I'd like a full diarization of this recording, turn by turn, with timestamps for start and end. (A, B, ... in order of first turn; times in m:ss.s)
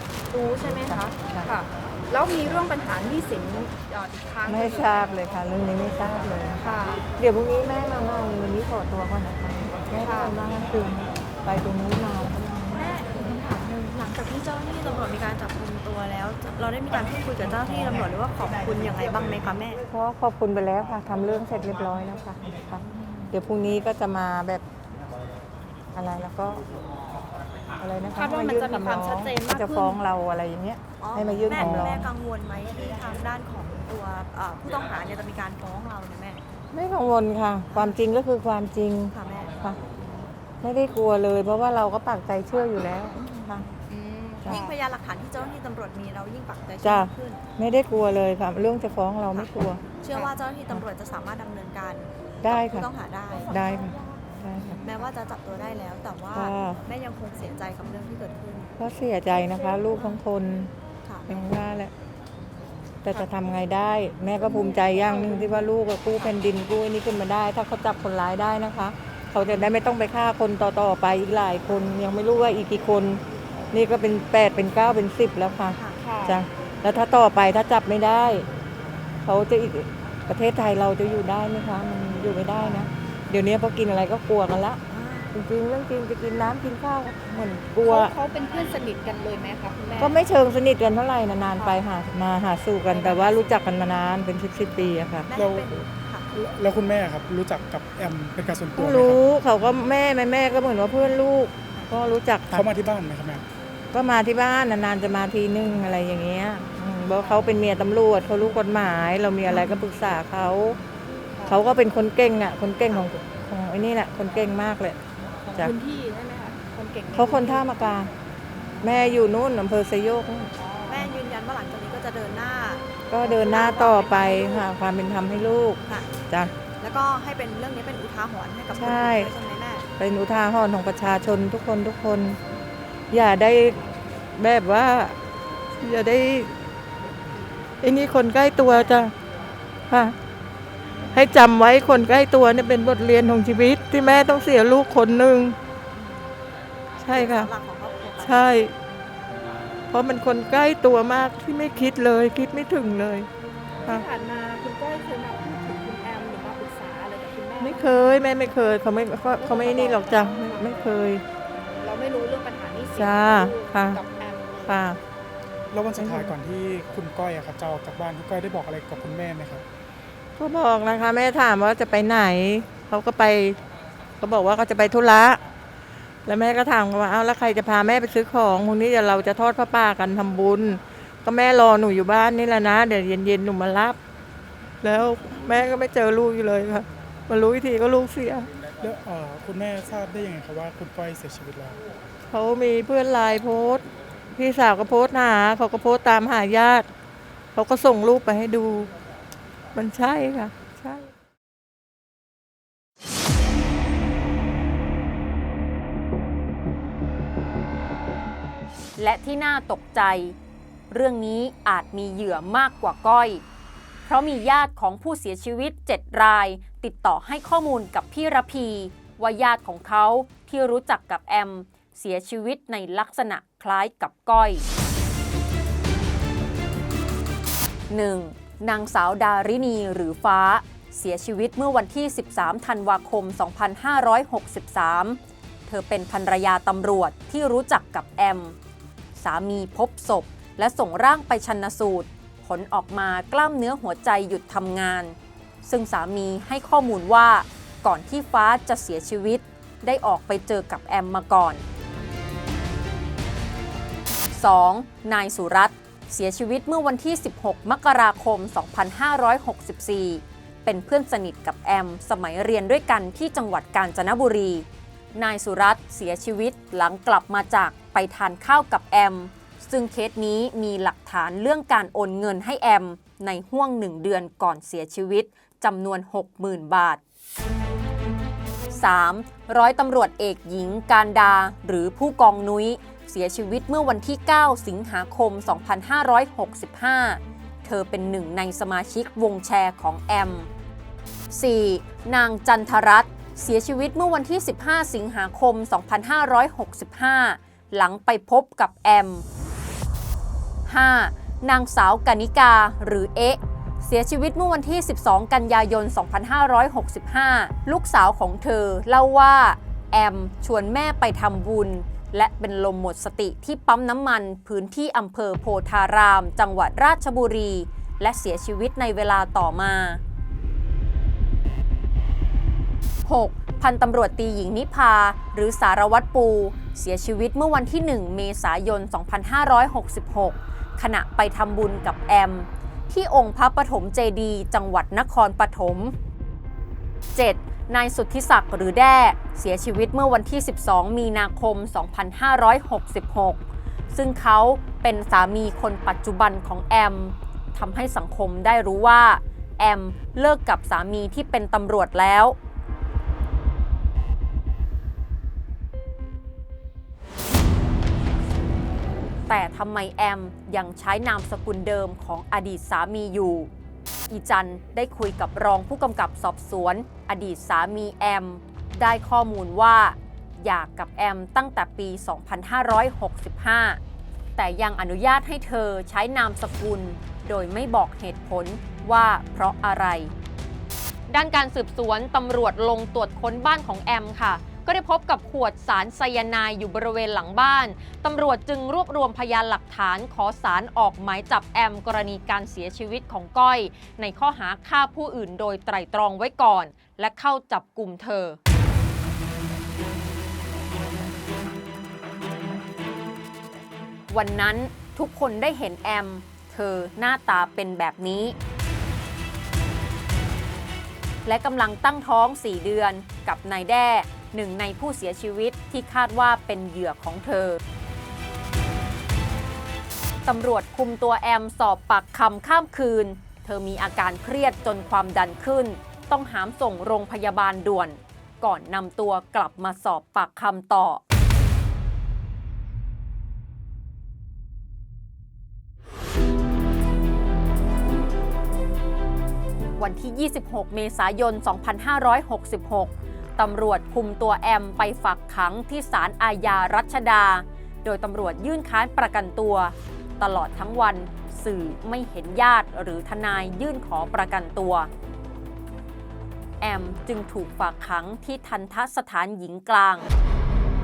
0:00.3-0:05.2 A
0:00.6-0:01.5 B
0:04.5-0:12.9 B
0:06.6-0:07.0 A
0:10.0-0:10.4 A
0:12.7-0:19.8 C
0:19.9-0:24.6 B
0:25.9-0:26.6 B
0:27.8-0:32.1 B
0:28.1-0:30.0 C
0:29.4-0:29.8 A
0:31.0-0:36.4 C
0:31.6-0:32.0 D
0:36.7-0:39.8 B
0:37.7-0:38.0 C
0:39.1-0:40.3 C
0:40.6-0:43.7 B
0:43.9-0:47.4 C
0:44.4-0:44.7 B
0:46.8-0:49.8 B
0:49.3-0:58.7 C
0:52.4-0:52.9 B
0:53.5-0:54.8 B
0:56.3-0:56.8 B
0:58.8-1:00.7 B
0:59.4-1:00.2 C
1:01.0-1:01.3 C
1:01.3-1:01.9 B
1:03.0-1:18.5 B
1:03.1-1:03.6 C
1:04.4-1:06.4 C
1:15.6-1:16.0 C
1:16.0-1:16.4 A
1:19.2-1:24.8 B
1:22.6-1:22.8 C
1:24.9-1:25.3 C
1:25.3-1:28.1 B
1:27.8-1:30.3 A
1:30.0-1:35.3 B
1:31.4-1:31.8 C
1:32.9-1:34.0 C
1:34.7-1:36.2 C
1:35.3-1:35.8 D
1:36.3-1:39.2 D
1:38.8-1:42.7 B
1:42.5-1:43.4 D
1:43.9-1:50.8 B
1:49.5-1:49.8 A
1:51.4-1:55.0 B
1:52.8-1:53.1 C
1:55.5-1:57.7 A
1:57.1-1:58.1 B
1:58.8-2:00.5 B
2:00.6-2:01.1 A
2:00.9-2:04.7 C
2:03.1-2:06.5 B
2:06.8-2:09.8 C
2:08.7-2:09.3 B
2:10.0-2:12.4 B
2:13.1-2:13.8 B
2:14.3-2:15.2 B
2:15.8-2:16.5 B
2:17.8-2:19.1 B
2:18.6-2:19.1 C
2:19.9-2:20.2 B
2:21.1-2:25.6 B
2:24.0-2:24.5 C
2:25.9-2:26.3 C
2:27.0-2:27.5 B
2:27.0-2:28.6 C
2:28.2-2:28.7 B
2:29.9-2:33.3 B
2:33.8-2:38.0 A
2:37.6-2:41.2 B
2:39.3-2:41.0 A
2:41.8-2:44.8 A
2:42.9-2:44.0 B
2:44.6-2:45.0 B
2:45.7-2:49.6 D
2:46.0-2:46.3 B
2:50.4-2:53.6 B
2:54.2-2:55.4 B
2:56.2-3:04.0 B
3:04.8-3:08.5 B
3:08.8-3:11.8 D
3:12.3-3:16.9 B
3:17.5-3:18.9 B
3:19.7-3:21.1 B
3:29.0-3:30.4 E
3:30.9-3:33.4 E
3:34.0-3:44.6 E
3:47.9-3:58.5 E
3:59.2-4:11.6 E
4:14.3-4:37.0 E
4:38.7-4:50.5 E
4:51.3-4:59.2 E
5:00.7-5:20.0 E
5:23.0-5:35.9 E
5:37.1-5:43.4 E
5:43.9-5:52.4 E
5:59.3-6:03.5 E
6:04.1-6:13.8 E
6:14.4-6:20.1 E
6:21.1-6:38.4 E
6:44.1-6:48.3 E
6:51.2-6:57.6 E
7:00.2-7:11.0 E
7:19.8-7:34.9 E
7:36.6-7:40.1 E